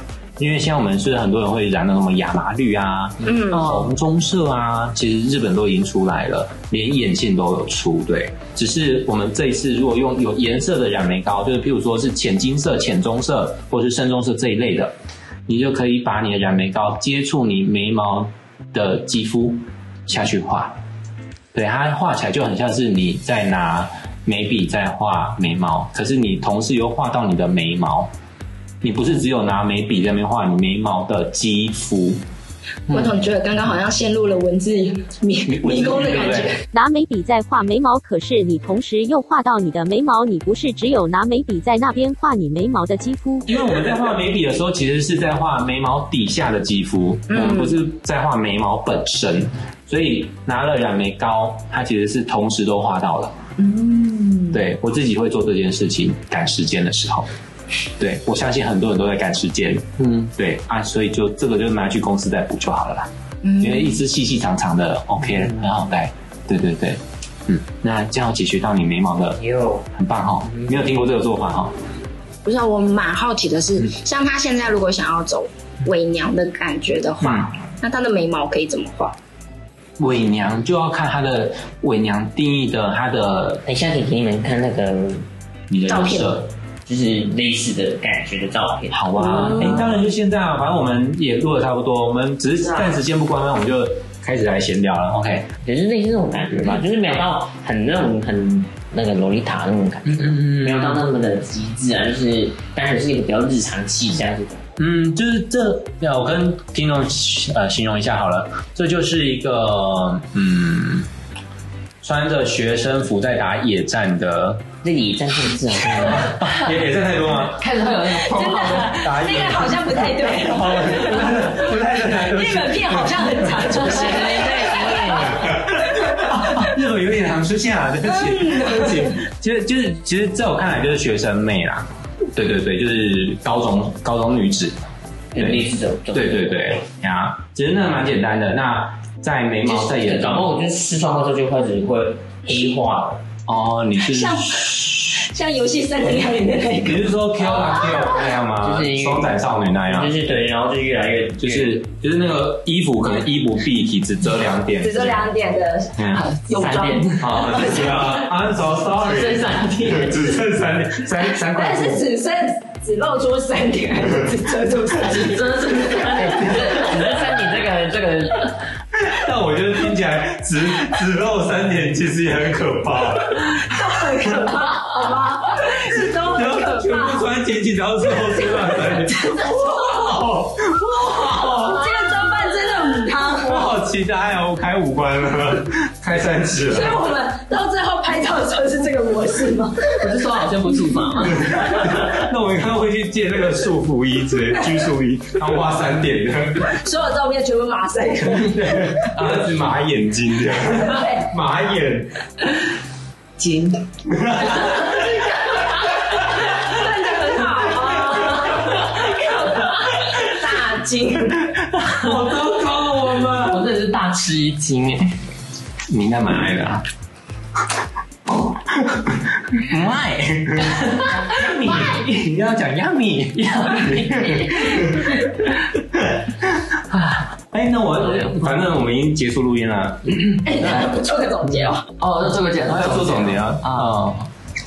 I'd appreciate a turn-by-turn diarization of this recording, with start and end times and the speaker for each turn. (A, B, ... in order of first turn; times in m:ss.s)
0:00.4-0:14.9 A
0:03.2-0:03.8 B
0:15.5-0:20.8 A
0:21.5-0:28.1 A
0:28.8-0:32.2 A
0:32.9-0:36.6 B
0:35.5-0:36.5 A
0:36.7-0:43.5 C
0:43.5-0:53.3 A
0:47.3-0:47.8 B
0:53.6-0:54.6 B
0:54.5-0:57.3 A
0:58.0-1:11.7 A
1:03.4-1:04.0 B
1:09.4-1:09.8 D
1:12.4-1:19.2 B
1:17.2-1:17.5 A
1:20.0-1:23.6 A
1:23.7-1:25.3 D
1:25.7-1:26.5 A
1:25.9-1:26.4 B
1:26.9-1:29.9 D
1:28.9-1:35.5 A
1:35.6-1:44.6 D
1:40.1-1:41.0 A
1:44.8-1:51.1 A
1:52.0-1:54.6 A
1:54.8-1:56.4 D
1:56.0-1:57.6 A
1:57.6-1:59.0 E
1:58.3-2:05.2 B
1:58.9-2:03.8 A
2:03.8-2:05.6 D
2:05.3-2:14.8 A
2:08.2-2:09.1 B
2:15.3-2:16.8 D
2:15.4-2:20.5 A
2:19.6-2:23.2 D
2:23.5-2:25.2 A
2:24.1-2:28.0 B
2:26.8-2:30.1 A
2:28.6-2:31.8 D
2:31.4-2:35.3 A
2:34.8-2:37.6 B
2:36.0-2:36.3 A
2:36.2-2:37.9 E
2:37.2-2:42.0 A
2:39.0-2:40.4 E
2:41.5-2:45.5 B
2:44.9-2:47.3 E
2:46.1-2:48.5 D
2:49.0-2:53.6 A
2:53.6-2:57.2 B
2:56.2-3:02.1 A
2:58.4-2:59.9 B
3:01.5-3:03.7 B
3:03.3-3:07.0 A
3:06.7-3:10.2 B
3:10.0-3:11.7 E
3:11.3-3:16.7 A
3:16.7-3:19.0 B
3:18.5-3:22.1 A
3:20.8-3:21.2 B
3:23.4-3:23.8 E
3:24.1-3:25.0 A
3:24.7-3:25.0 B
3:26.4-3:31.5 B
3:31.8-3:33.6 A
3:33.3-3:35.1 E
3:35.9-3:36.8 A
3:38.7-3:46.7 A
3:44.2-3:44.5 E
3:46.9-3:47.2 E
3:47.5-3:50.5 A
3:50.4-3:51.9 B
3:52.0-3:53.9 E
3:52.7-3:54.3 A